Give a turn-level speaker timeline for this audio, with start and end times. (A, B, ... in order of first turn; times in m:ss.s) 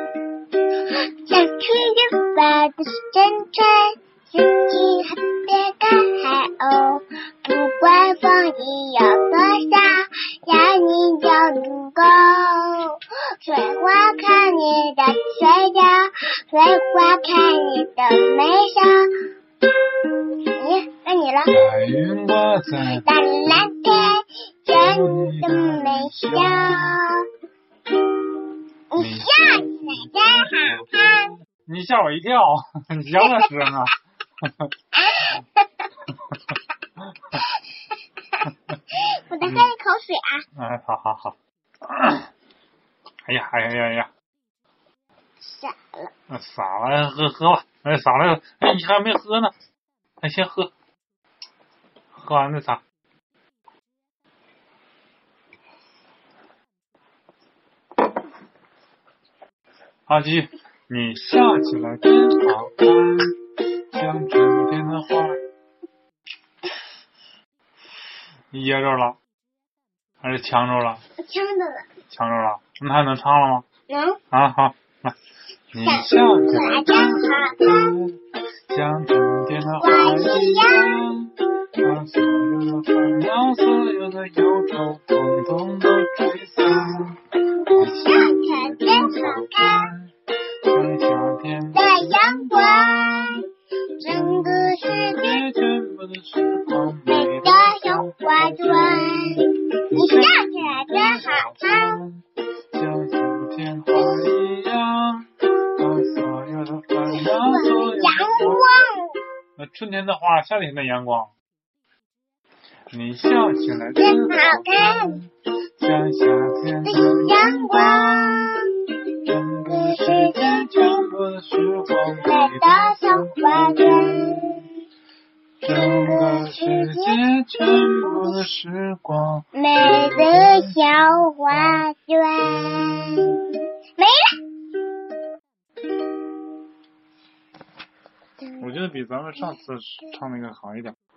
0:01.2-0:19.1 A
0:20.1-0:21.6 A
0:21.5-0:23.0 B
0:22.8-0:27.2 A
0:24.7-0:27.0 B
0:28.9-0:31.3 A
0:29.0-0:29.3 B
0:30.4-0:30.9 B
0:31.5-0:33.9 B
0:33.2-0:33.4 A
0:34.4-0:34.7 B
0:34.9-0:35.9 A
0:37.3-0:38.0 A
0:38.9-0:40.4 A
0:39.4-0:39.7 B
0:40.6-0:42.3 B
0:43.2-0:44.1 B
0:45.4-0:46.1 A
0:46.3-0:49.5 B
0:50.2-0:50.7 B
0:52.1-0:52.8 B
1:00.1-1:03.3 B
1:03.9-1:05.4 B
1:08.5-1:09.2 B
1:10.2-1:11.0 B
1:11.2-1:11.9 A
1:12.1-1:13.6 B
1:13.9-1:14.2 A
1:14.3-1:15.2 B
1:15.7-1:18.2 B
1:15.8-1:17.9 A
1:18.7-1:30.1 B
1:19.7-1:21.0 A
1:27.8-1:29.9 A
1:30.6-1:33.4 B
1:31.7-1:33.4 A
1:34.0-1:35.4 A
1:34.1-1:39.4 B
1:37.1-1:42.0 A
1:39.9-1:48.7 B
1:47.1-1:49.2 A
1:49.6-1:51.3 B
1:52.9-1:58.5 B
1:53.9-1:55.2 A
1:56.8-1:58.6 A
1:59.2-2:04.3 B
1:59.6-2:01.0 A
2:02.1-2:04.6 A
2:05.6-2:11.8 B
2:05.7-2:07.2 A
2:07.7-2:08.4 A
2:09.5-2:13.4 A
2:18.4-2:18.7 A
2:18.6-2:20.9 B
2:19.4-2:20.1 A